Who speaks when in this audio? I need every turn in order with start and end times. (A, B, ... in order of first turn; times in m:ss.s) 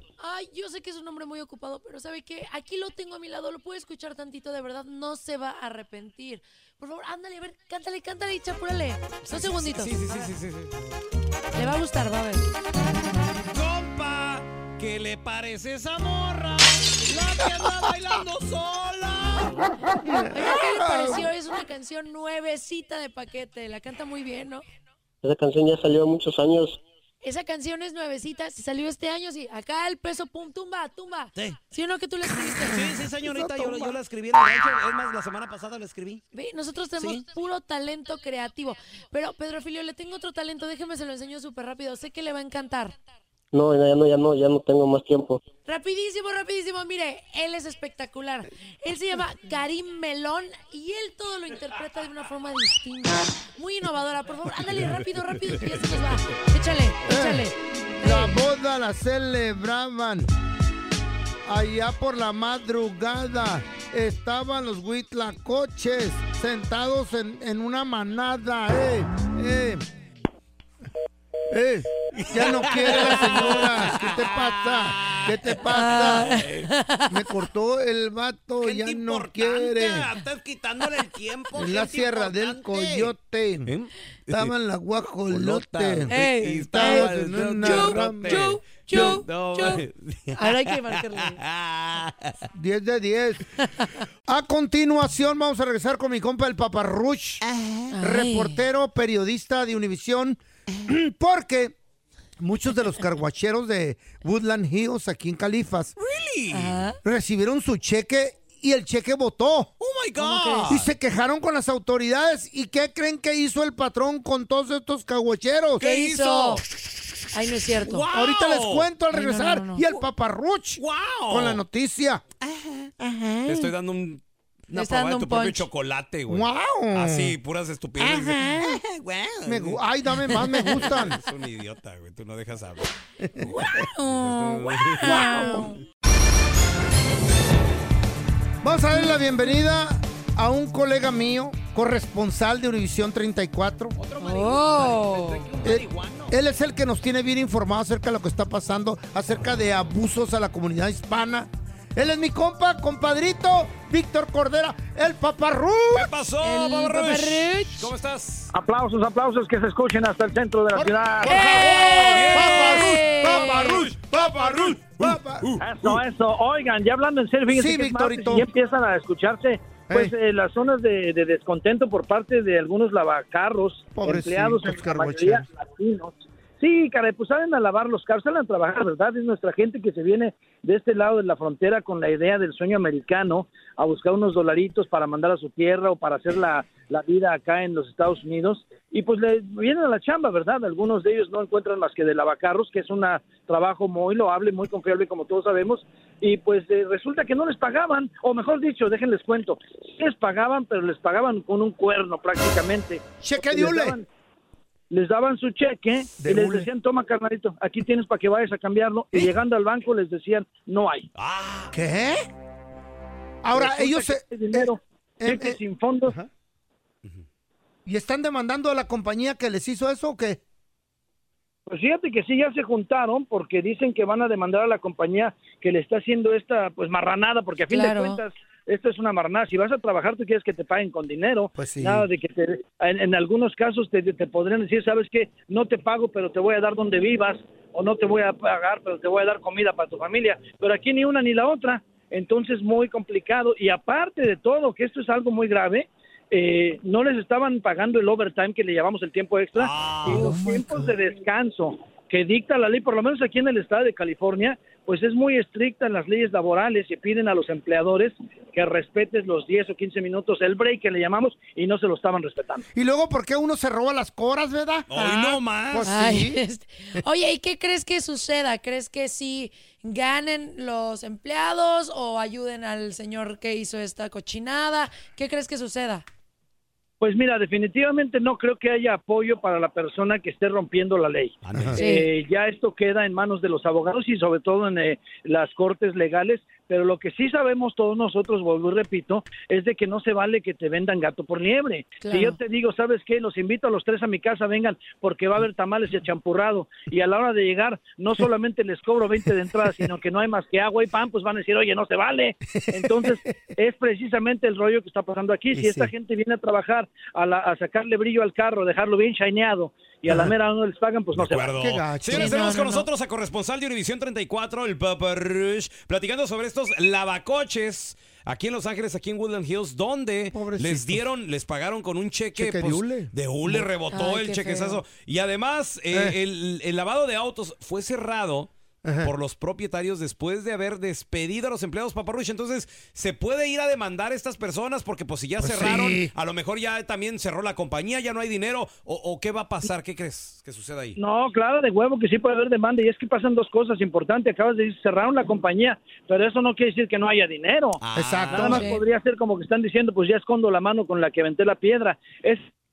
0:00.2-0:10.1 A
0:09.3-0:10.8 B
0:11.5-0:12.4 A
0:13.5-0:19.6 B
0:20.0-0:21.3 C
0:20.3-0:24.6 A
0:25.2-0:26.8 D
0:27.2-0:32.8 A
0:32.7-0:36.2 B
0:33.2-0:34.0 C
0:36.3-0:43.0 A
0:43.5-0:45.4 D
0:45.7-0:58.4 A
0:57.1-0:57.5 C
0:58.0-1:00.3 C
1:01.4-1:09.8 C
1:11.5-1:16.4 C
1:12.1-1:16.7 B
1:15.7-1:17.1 A
1:17.1-1:20.1 C
1:18.6-1:23.1 B
1:21.6-1:23.7 C
1:23.7-1:24.5 B
1:24.3-1:29.2 C
1:25.3-1:32.5 B
1:26.1-1:29.8 A
1:30.4-1:31.4 A
1:32.5-1:33.4 C
1:33.6-1:33.9 A
1:34.3-1:37.4 C
1:37.9-1:38.6 A
1:38.0-1:41.8 C
1:42.4-1:45.9 C
1:46.0-1:46.9 B
1:46.5-1:47.0 A
1:47.0-1:49.7 C
1:49.8-1:50.9 B
1:50.2-1:50.8 A
1:50.7-1:55.8 C
1:55.8-1:58.9 B
1:55.8-1:56.6 A
1:57.3-1:58.1 A
1:58.1-2:02.2 C
1:59.1-1:59.9 A
2:00.8-2:01.6 B
2:02.6-2:02.9 B
2:03.2-2:03.5 C
2:03.4-2:09.8 B
2:04.7-2:05.7 A
2:06.3-2:07.4 C
2:08.0-2:08.8 C
2:09.5-2:11.2 C
2:10.5-2:12.9 B
2:13.2-2:13.9 C
2:13.4-2:15.8 A
2:14.0-2:15.6 B
2:15.0-2:15.8 C
2:18.6-2:24.0 C
2:24.0-2:26.3 B
2:24.2-2:25.4 A
2:25.6-2:36.1 C
2:35.9-2:38.5 B
2:36.4-2:37.9 A
2:38.5-2:41.4 E
2:40.8-2:45.5 C
2:41.3-2:43.8 A
2:41.3-2:46.0 B
2:45.6-3:24.1 E
2:47.5-2:48.5 C
2:54.0-2:55.5 C
3:23.2-3:24.0 C
3:24.9-3:31.1 E
3:26.2-3:26.7 C
3:31.2-3:31.7 B
3:31.7-3:32.2 C
3:33.4-3:36.3 C
3:33.5-3:36.1 E
3:37.9-3:40.4 C
3:41.7-4:22.7 E
3:47.7-3:48.2 A
3:51.6-3:52.1 C
4:09.6-4:10.4 B
4:10.0-4:11.0 C
4:22.7-4:26.4 C
4:24.9-4:25.9 B
4:25.8-4:36.0 A
4:37.0-5:11.5 E
4:41.4-4:41.8 B
4:41.8-4:42.1 A
4:52.0-4:52.4 A
5:02.6-5:03.3 C
5:05.5-5:05.9 C
5:11.1-5:28.5 B
5:11.6-5:12.5 C
5:12.1-5:12.9 A
5:20.3-5:21.0 C
5:22.4-5:23.7 C
5:23.9-5:24.8 A
5:28.8-5:29.1 C
5:29.0-5:41.0 B
5:35.4-5:36.1 C
5:41.0-5:47.8 E
5:47.8-5:48.7 B
5:48.0-5:48.6 C
5:48.3-5:52.5 E
5:48.4-5:48.8 A